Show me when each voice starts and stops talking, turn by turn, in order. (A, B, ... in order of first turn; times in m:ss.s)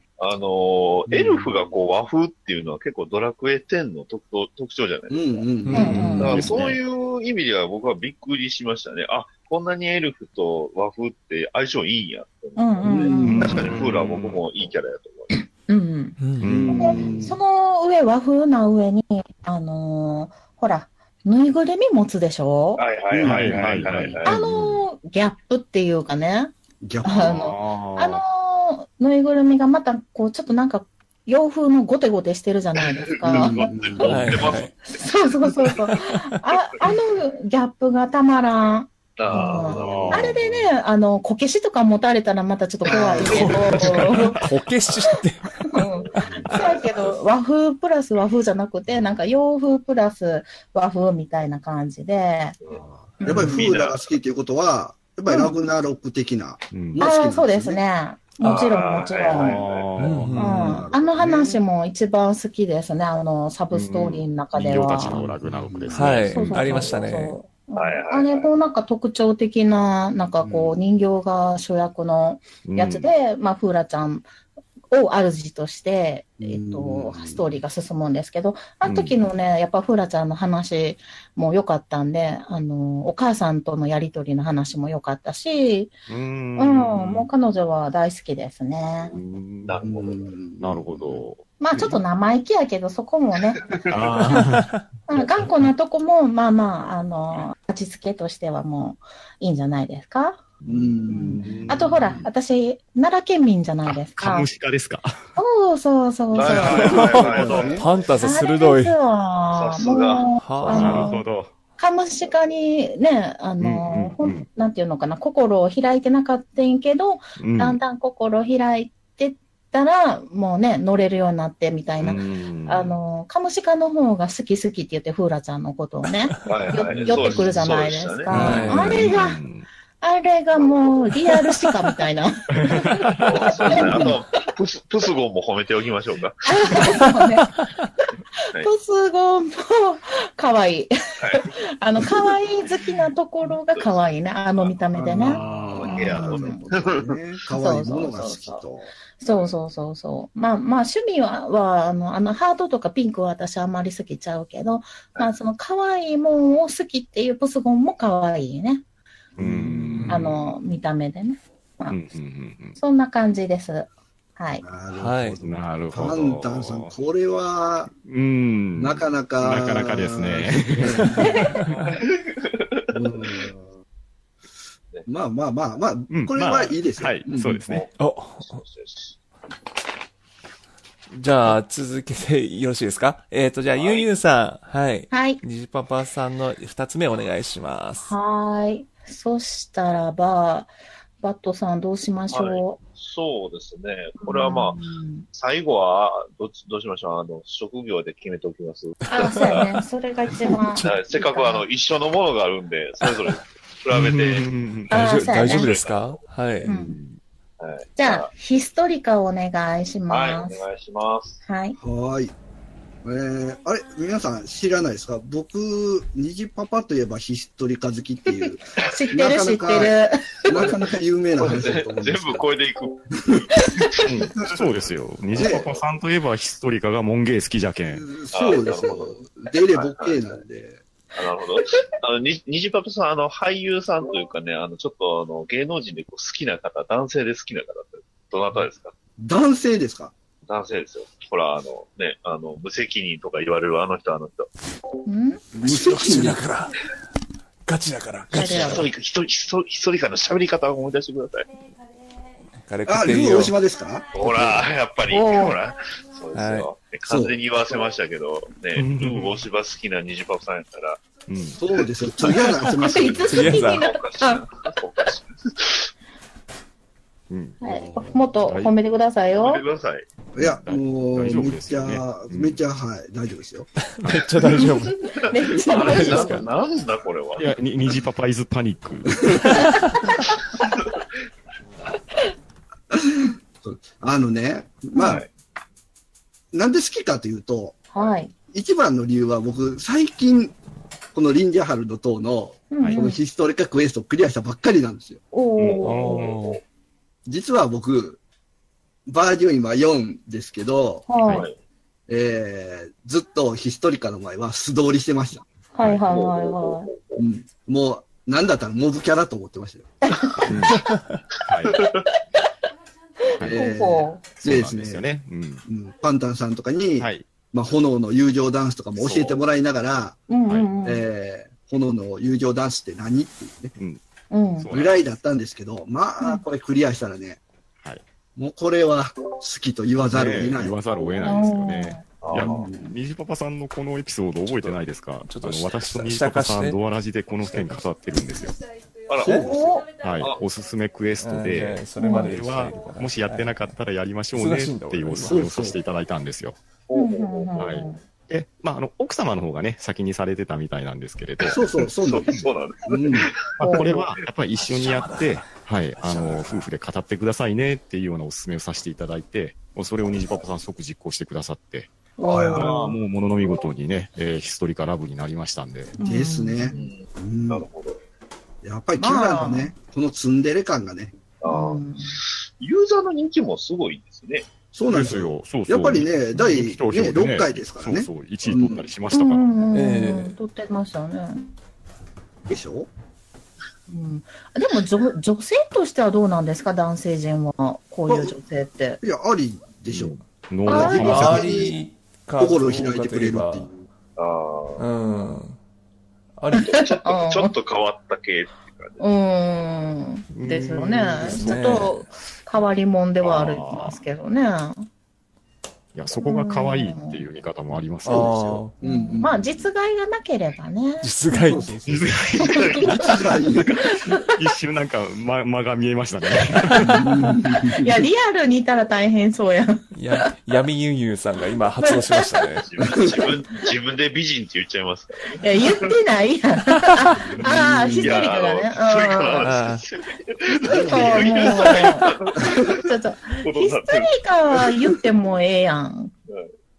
0:00.2-0:05.4 A
0:01.1-0:01.5 B
0:05.1-0:06.4 B
0:05.6-0:06.1 C
0:05.7-0:06.8 D
0:05.7-0:06.5 E
0:06.2-0:15.4 A
0:12.6-0:13.6 E
0:12.8-0:13.5 B
0:13.2-0:14.4 D
0:15.3-0:22.8 E
0:16.2-0:16.5 C
0:16.4-0:17.2 D
0:16.4-0:17.4 B
0:22.8-0:24.3 A
0:23.1-0:24.1 B
0:23.2-0:24.8 D
0:24.2-0:26.5 E
0:26.8-0:27.5 B
0:27.0-0:33.7 E
0:27.1-0:28.2 D
0:33.2-0:35.0 A
0:33.4-0:34.3 B
0:34.1-0:34.7 C
0:34.9-0:44.4 E
0:39.2-0:40.3 A
0:39.6-0:40.7 D
0:42.8-0:43.9 A
0:42.9-0:43.5 B
0:43.2-0:45.5 C
0:43.7-0:44.4 D
0:45.7-0:52.6 E
0:46.0-0:47.1 A
0:46.2-0:46.5 B
0:52.7-0:57.8 B
0:53.2-0:53.6 E
0:53.4-0:54.0 A
0:55.3-0:55.6 E
0:56.7-0:57.0 D
0:57.0-0:59.6 E
0:58.4-0:59.9 A
0:59.3-1:00.8 D
1:00.0-1:00.8 C
1:00.4-1:01.6 B
1:00.4-1:05.3 E
1:03.7-1:06.9 D
1:05.4-1:06.1 B
1:05.9-1:07.4 C
1:06.3-1:14.3 E
1:07.8-1:08.5 A
1:10.4-1:10.8 B
1:12.6-1:13.1 D
1:14.9-1:25.9 E
1:16.4-1:17.4 B
1:18.8-1:19.2 D
1:26.1-1:27.3 D
1:26.6-1:29.1 E
1:29.1-1:29.8 D
1:29.6-1:30.3 A
1:29.8-1:31.2 B
1:30.6-1:32.0 D
1:31.6-1:34.4 E
1:33.8-1:35.2 D
1:34.1-1:34.8 C
1:35.1-1:40.4 E
1:40.6-1:42.3 D
1:40.6-1:41.9 B
1:41.1-1:44.5 E
1:43.8-1:45.3 D
1:45.4-1:51.2 E
1:46.3-1:48.0 A
1:46.6-1:49.0 C
1:47.0-1:47.8 B
1:49.5-1:50.2 A
1:50.4-1:51.1 C
1:50.6-1:51.6 D
1:51.8-2:09.4 E
1:53.6-1:54.5 D
1:57.4-1:57.8 D
2:02.0-2:03.0 D
2:06.4-2:08.6 A
2:07.0-2:07.5 B
2:08.3-2:09.0 C
2:08.3-2:09.6 D
2:10.0-2:14.2 E
2:10.5-2:11.2 A
2:12.5-2:13.4 D
2:13.2-2:17.0 A
2:16.4-2:17.6 E
2:18.6-2:26.6 E
2:21.2-2:21.5 A
2:23.7-2:24.0 A
2:24.6-2:27.2 A
2:24.9-2:28.9 B
2:27.5-2:28.6 E
2:29.2-2:38.8 E
2:39.4-2:39.8 B
2:39.4-2:40.4 D
2:39.7-2:40.3 C
2:40.1-2:42.0 E
2:41.9-2:42.8 D
2:42.8-2:44.6 E
2:44.6-2:47.9 B
2:44.9-2:45.4 C
2:45.4-2:46.9 D
2:47.9-2:51.8 D
2:48.8-2:51.4 B
2:51.0-2:51.8 C
2:52.0-2:53.5 A
2:52.9-2:53.7 B
2:55.1-2:57.6 B
2:56.1-2:57.8 D
2:57.7-2:59.2 A
2:58.0-2:58.6 C
3:01.1-3:08.1 C
3:03.8-3:04.1 A
3:05.1-3:05.4 E
3:08.0-3:12.8 E
3:12.3-3:14.8 A
3:14.2-3:15.2 E
3:15.3-3:19.7 A
3:19.1-3:21.6 E
3:19.2-3:19.6 C
3:20.8-3:24.5 A
3:23.9-3:25.5 D
3:24.9-3:25.7 E
3:24.9-3:26.7 C
3:25.4-3:26.2 A
3:26.6-3:27.2 D
3:26.6-3:27.0 E
3:27.6-3:28.3 A
3:28.0-3:30.6 E
3:30.1-3:31.4 A
3:31.5-3:31.8 E
3:31.8-3:32.3 B
3:33.0-3:42.4 B
3:38.4-3:40.6 E
3:40.5-3:40.8 A
3:41.4-3:44.6 A
3:43.2-3:43.4 B
3:44.0-3:48.1 D
3:45.3-3:45.8 A
3:45.4-3:45.7 B
3:47.9-3:50.8 B
3:48.3-3:50.3 A
3:51.1-3:58.9 A
3:59.2-4:00.1 B
4:00.5-4:04.5 A
4:05.0-4:05.4 E
4:05.5-4:06.4 B
4:05.6-4:06.8 C
4:07.6-4:08.8 C
4:08.3-4:08.9 E
4:08.4-4:11.5 A
4:12.6-4:13.6 C
4:12.8-4:14.1 B
4:14.1-4:21.1 A
4:15.1-4:15.6 E
4:16.3-4:16.7 C
4:17.0-4:17.4 B
4:18.8-4:19.4 D
4:21.2-4:21.6 D
4:21.5-4:23.6 B
4:22.2-4:24.4 E
4:23.3-4:23.8 C
4:23.6-4:25.9 A
4:27.3-4:27.6 D
4:27.6-4:28.3 B
4:27.6-4:29.6 E
4:28.4-4:28.7 D
4:29.3-4:30.1 A
4:30.4-4:33.7 B
4:30.4-4:32.6 D
4:34.0-4:35.0 C
4:34.6-4:36.4 E
4:35.2-4:37.5 A
4:35.6-4:36.5 C
4:37.4-4:39.6 D
4:42.9-4:45.2 B
4:44.9-4:45.2 E
4:45.0-4:45.3 A
4:46.5-4:47.8 B
4:47.9-4:48.3 E
4:48.5-4:50.5 B
4:51.1-4:55.2 B
4:52.7-4:53.2 E
4:52.8-4:53.0 D
4:55.3-4:56.3 E
4:55.6-4:56.6 D
4:55.8-4:56.5 A
4:57.2-4:58.2 B
4:59.0-5:01.1 B
5:01.1-5:01.5 E
5:01.2-5:01.5 D
5:01.3-5:01.6 A
5:02.1-5:05.5 B
5:05.8-5:06.9 E
5:05.8-5:06.1 D
5:06.1-5:07.2 A
5:07.2-5:09.9 B
5:10.0-5:10.5 E
5:10.4-5:11.8 D
5:11.3-5:12.0 A
5:13.4-5:13.8 D
5:13.4-5:14.3 E
5:13.4-5:15.0 B
5:14.4-5:15.6 D
5:15.6-5:20.2 B
5:17.0-5:17.3 D
5:19.0-5:19.4 D
5:20.3-5:21.1 E
5:20.4-5:20.7 D
5:20.8-5:23.8 B
5:23.8-5:24.0 D
5:24.3-5:24.7 E
5:24.6-5:25.0 D
5:24.7-5:27.4 B
5:28.4-5:30.8 B
5:30.1-5:38.6 D
5:31.2-5:32.0 E
5:32.2-5:32.7 A
5:32.4-5:32.9 B
5:34.5-5:36.8 C
5:39.1-5:39.5 A
5:39.2-5:39.5 C
5:39.2-5:39.8 B
5:39.3-5:39.9 E
5:40.0-5:46.6 D
5:41.2-5:43.8 C
5:42.0-5:42.3 E
5:44.3-5:45.5 C
5:45.2-5:45.8 B
5:46.9-5:47.8 A
5:46.9-5:48.0 E
5:47.6-5:51.6 D
5:51.4-5:53.3 B
5:52.0-5:54.2 A
5:53.6-6:01.9 D
5:53.6-5:54.0 E
5:54.6-5:55.4 C
5:56.0-5:56.7 C
6:02.2-6:02.8 E
6:02.3-6:03.0 A
6:02.3-6:02.6 B
6:02.5-6:06.0 D
6:06.0-6:07.7 B
6:06.0-6:06.8 E
6:06.7-6:08.0 A
6:08.6-6:11.2 B
6:09.0-6:09.7 E
6:11.4-6:14.5 A
6:11.5-6:12.2 E
6:14.7-6:18.9 B
6:14.9-6:19.4 D
6:19.1-6:21.5 E
6:19.7-6:20.3 C
6:22.5-6:22.9 B
6:23.9-6:29.0 E
6:28.1-6:28.4 B
6:29.0-6:30.1 B
6:29.9-6:31.6 D
6:30.6-6:31.5 E
6:30.7-6:31.8 B
6:30.7-6:33.7 C
6:32.4-6:33.9 B
6:34.2-6:34.8 A
6:34.8-6:35.6 C
6:36.4-6:36.7 C
6:36.6-6:37.5 E
6:36.7-6:39.0 A
6:39.0-6:44.9 E
6:40.3-6:41.7 D
6:41.3-6:42.0 C
6:43.2-6:44.0 D
6:46.0-6:48.7 D
6:46.2-6:47.2 E
6:48.0-6:48.7 C
6:48.8-6:49.3 B
6:48.8-6:51.1 E
6:51.0-6:51.8 C
6:51.4-6:52.1 B
6:51.9-6:53.2 D
6:52.4-6:53.9 A
6:52.5-6:53.2 E
6:53.0-6:53.8 B
6:53.9-6:57.0 D
6:53.9-6:54.3 E
6:56.4-6:57.0 E
6:56.9-6:58.0 B
6:57.6-7:00.2 E
6:59.9-7:02.6 C
7:01.8-7:02.5 E
7:02.6-7:05.9 A
7:02.8-7:03.3 B
7:05.4-7:09.5 E
7:07.2-7:08.3 B
7:08.0-7:12.8 A
7:09.4-7:09.8 C
7:10.6-7:11.7 B
7:10.7-7:16.1 E
7:13.4-7:15.0 A